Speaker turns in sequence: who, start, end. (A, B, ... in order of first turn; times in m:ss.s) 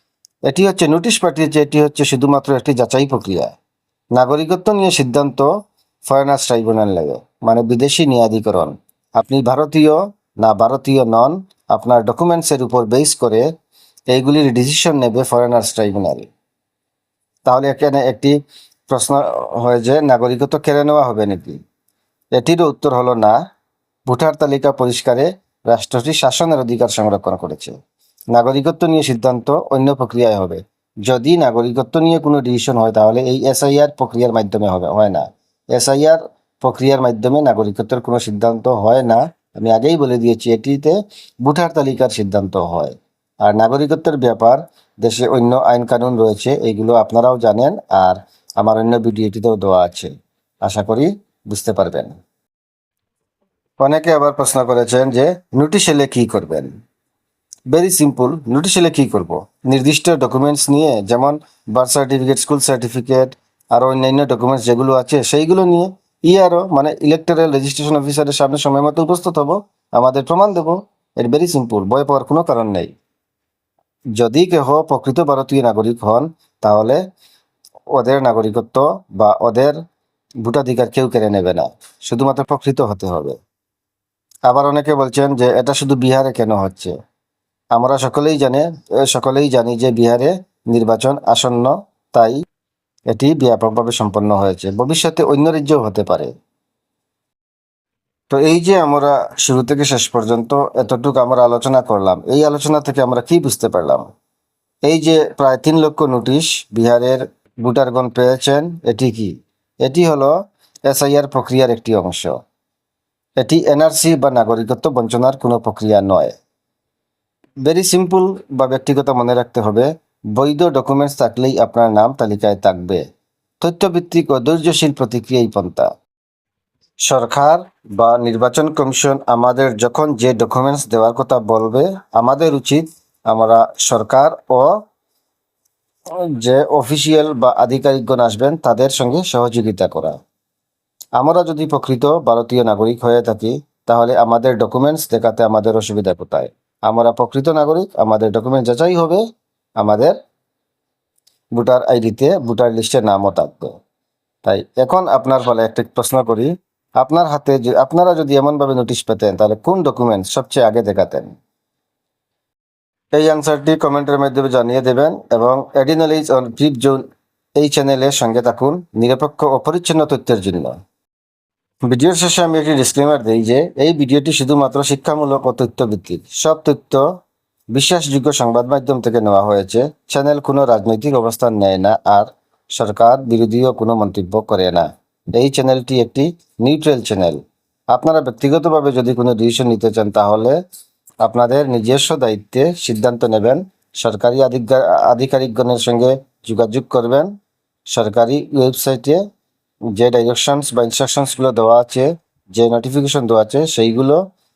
0:00.5-0:03.5 A
0:04.2-0:05.5 A
0:06.1-0:13.5 A
0:14.1-0:16.3 A
0:17.5-0:18.4 A
0:18.9-0:21.6 A
0:22.4-0:23.4 A
0:24.1-0:27.8 A
0:28.3-0:50.1 A
0:50.6-0:52.2 A
0:53.8-0:56.7 A
0:57.7-1:12.9 A
1:14.2-1:17.0 A
1:17.9-1:19.8 A
1:20.4-1:23.4 A
1:24.5-1:26.9 A
1:27.7-1:32.4 A
1:33.1-1:36.3 A
1:38.3-1:44.1 A
1:44.8-1:50.3 A
1:50.9-1:52.4 A
1:53.4-1:56.4 A
1:57.6-2:03.0 A
2:03.6-2:05.9 A
2:07.1-2:14.7 A
2:16.1-2:20.2 A
2:21.2-2:29.2 A
2:29.8-2:30.2 A
2:31.6-2:33.7 A
2:34.4-2:41.4 A
2:43.1-2:47.0 A
2:47.6-2:50.7 A
2:51.9-2:57.0 A
2:57.7-3:07.4 A
3:07.9-3:10.6 A
3:11.2-3:17.3 A
3:17.9-3:19.2 A
3:20.0-3:24.2 A